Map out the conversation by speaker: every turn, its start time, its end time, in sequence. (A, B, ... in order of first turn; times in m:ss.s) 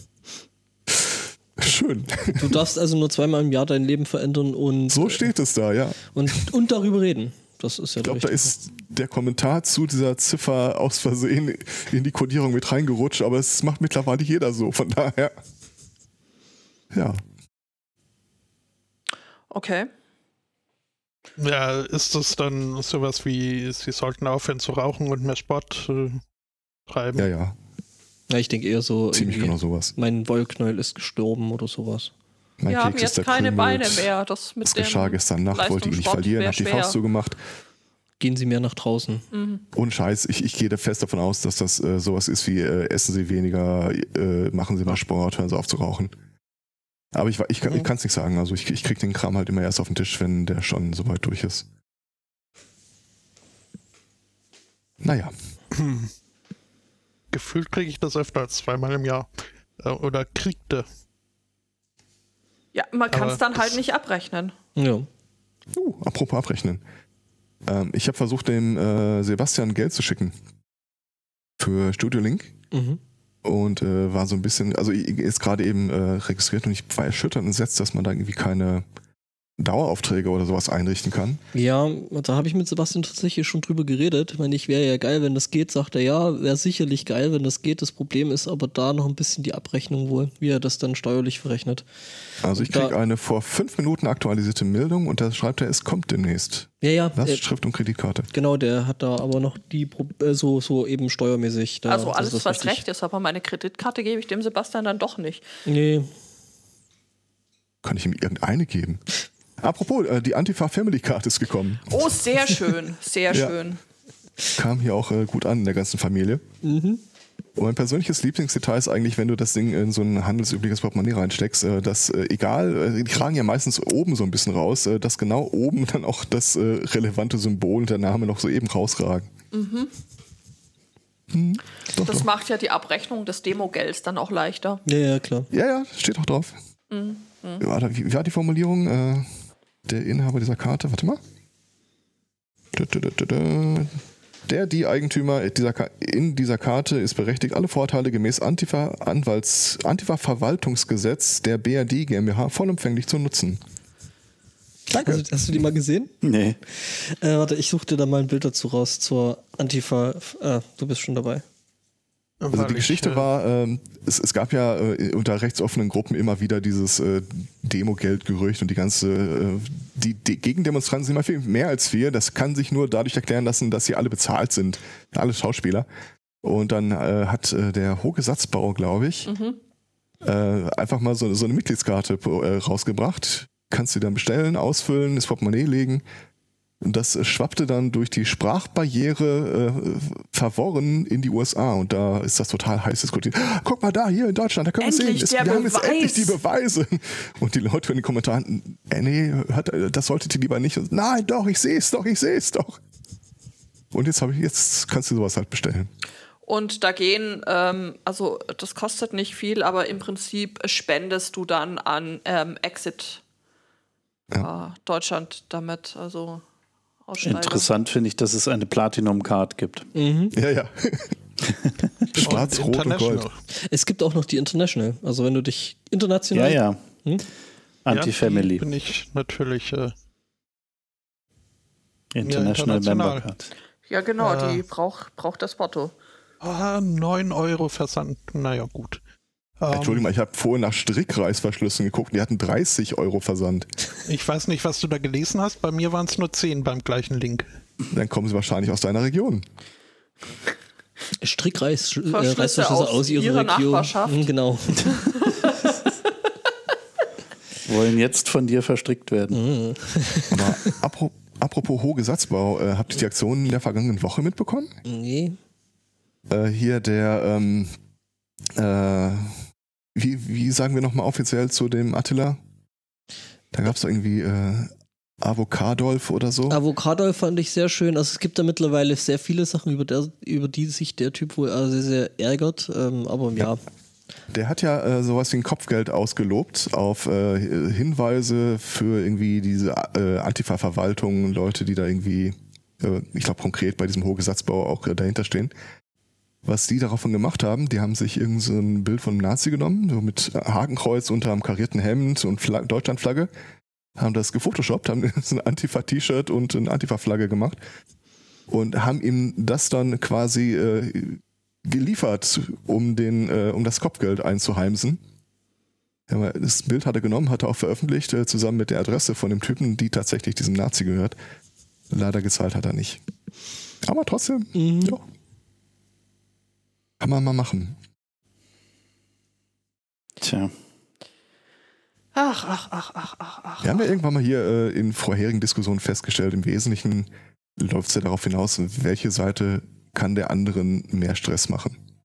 0:00.9-0:02.6 A
0:02.3-0:05.3 B
0:04.9-0:06.3 A
0:06.1-0:08.5 B
0:08.0-0:15.3 A
0:16.9-0:17.2 A
0:19.5-0:19.9 C
0:21.4-0:26.2 D
0:26.9-0:27.3 D
0:27.2-0:27.6 A
0:28.3-0:32.1 B
0:29.1-0:29.9 A
0:32.6-0:34.1 A
0:32.7-0:37.0 C
0:34.6-0:37.4 A
0:38.2-0:39.2 B
0:39.3-0:39.6 C
0:39.7-0:46.1 A
0:47.1-0:51.7 A
0:55.0-0:55.3 A
0:55.7-0:56.1 D
0:57.3-0:59.3 D
0:59.8-1:00.9 D
1:02.7-1:04.6 C
1:03.1-1:03.8 D
1:04.8-1:05.1 B
1:05.7-1:06.8 A
1:07.7-1:10.3 A
1:11.6-1:12.5 A
1:12.7-1:13.0 B
1:13.4-1:18.8 A
1:19.6-1:21.4 A
1:21.5-1:31.8 B
1:32.4-1:38.3 A
1:32.5-1:33.0 B
1:36.8-1:37.4 B
1:38.3-1:42.8 B
1:41.9-1:45.5 C
1:45.6-1:46.1 B
1:47.8-1:49.0 A
1:49.6-1:52.1 A
1:51.9-1:53.8 C
1:53.3-1:53.6 A
1:54.6-1:56.4 A
1:56.6-1:57.0 B
1:57.6-2:09.3 A
2:09.5-2:09.9 C
2:11.3-2:12.3 A
2:12.0-2:14.8 C
2:14.9-2:15.5 B
2:15.5-2:16.5 A
2:16.9-2:17.6 C
2:17.6-2:19.3 A
2:19.9-2:21.2 A
2:22.7-2:33.6 A
2:34.9-2:35.3 A
2:34.9-2:36.1 B
2:36.2-2:36.6 E
2:36.8-2:41.4 B
2:42.4-2:43.3 D
2:42.5-2:55.9 A
2:56.4-2:59.3 A
2:59.3-2:59.6 C
3:00.2-3:06.0 A
3:06.8-3:22.8 A
3:14.8-3:16.4 C
3:23.9-3:25.9 A
3:26.4-3:33.2 C
3:34.4-3:36.4 C
3:37.1-3:37.7 C
3:37.2-3:39.9 E
3:40.0-3:40.4 B
3:40.3-3:41.2 A
3:41.5-3:41.9 E
3:42.1-3:43.3 A
3:42.2-3:43.4 D
3:43.6-3:47.3 B
3:46.3-3:46.8 E
3:47.8-3:48.6 E
3:47.9-3:49.9 D
3:52.1-3:53.5 E
3:52.2-3:53.3 D
3:53.9-3:55.9 C
3:54.2-3:54.6 D
3:56.4-3:59.0 D
3:59.6-4:00.1 D
3:59.7-4:03.7 A
4:04.1-4:07.5 D
4:07.9-4:09.4 A
4:11.2-4:15.1 B
4:12.1-4:14.3 C
4:14.8-4:15.8 C
4:17.6-4:19.4 E
4:19.3-4:20.8 B
4:20.3-4:24.8 A
4:24.8-4:25.4 B
4:26.3-4:27.7 A
4:28.5-4:29.4 A
4:30.0-4:32.4 A
4:33.5-4:34.7 A
4:35.2-4:36.6 A
4:36.5-4:43.6 B
4:44.3-4:55.5 A
4:56.4-5:03.3 A
5:04.0-5:07.6 A
5:08.5-5:15.0 A
5:16.1-5:21.2 A
5:21.9-5:23.0 A
5:23.8-5:25.0 A
5:24.6-5:25.0 B
5:27.0-5:27.8 A
5:30.2-5:30.5 E
5:32.2-5:33.9 C
5:33.6-5:41.8 A